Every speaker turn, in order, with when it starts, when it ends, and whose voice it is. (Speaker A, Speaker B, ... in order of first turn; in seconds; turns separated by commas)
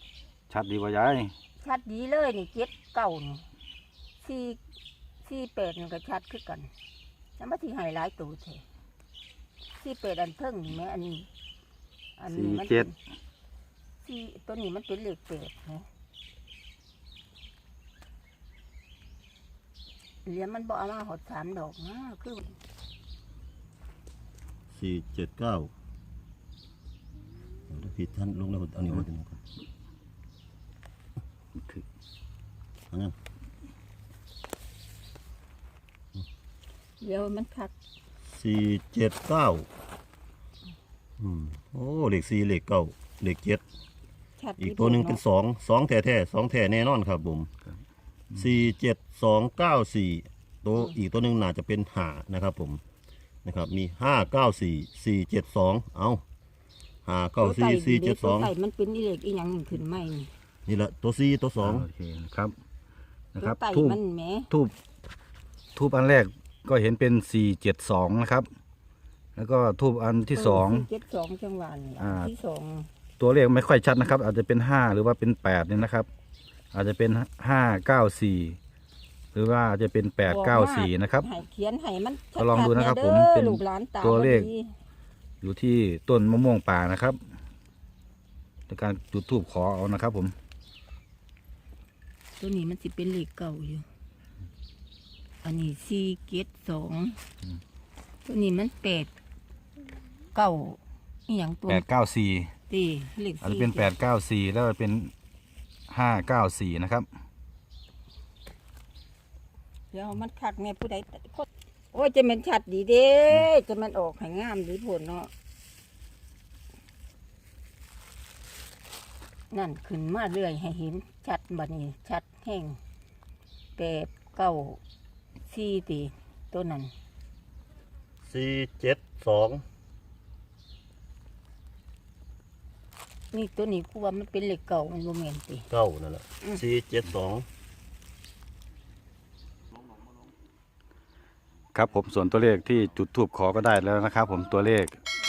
Speaker A: 0.5-1.3, Speaker B: 1.6-3.5, Speaker B: 4.2-4.6, Speaker B: 5.2-6.7, Speaker B: 7.4-8.6, Speaker B: 9.7-11.3, Speaker B: 12.2-12.9, Speaker A: 12.3-12.9, Speaker B: 14.0-15.9, Speaker B: 20.2-22.6, Speaker C: 24.7-25.7, Speaker C: 27.7-29.4, Speaker A: 31.6-31.8, Speaker C: 32.9-33.2, Speaker B: 37.0-37.7, Speaker C: 38.2-39.7, Speaker C: 41.2-43.6, Speaker B: 44.4-45.2, Speaker C: 44.6-47.5, Speaker C: 48.4-52.8, Speaker C: 53.5-56.2, Speaker C: 57.0-58.5, Speaker B: 57.4-60.3, Speaker C: 60.7-61.9, Speaker A: 61.6-62.5, Speaker A: 63.4-64.0, Speaker B: 63.4-64.5, Speaker A: 65.8-68.5, Speaker A: 69.4-70.9, Speaker B: 70.3-72.9, Speaker A: 72.0-72.3, Speaker A: 73.2-76.1, Speaker A: 76.7-78.6, Speaker A: 79.3-81.3, Speaker B: 80.2-84.8, Speaker A: 82.4-84.5, Speaker A: 85.4-87.2, Speaker A: 88.7-90.3, Speaker B: 92.4-93.9, Speaker B: 95.4-97.2, Speaker B: 98.3-99.1, Speaker B: 100.3-101.9, Speaker A: 101.7-102.5, Speaker B: 102.7-103.9, Speaker A: 103.4-105.1, Speaker A: 105.9-107.1, Speaker B: 109.9-115.3, Speaker B: 119.5-122.8, Speaker B: 123.8-124.8, Speaker B: 125.5-126.9, Speaker C: 128.2-129.6, Speaker B: 133.3-135.7, Speaker C: 135.7-137.5, Speaker A: 141.7-145.0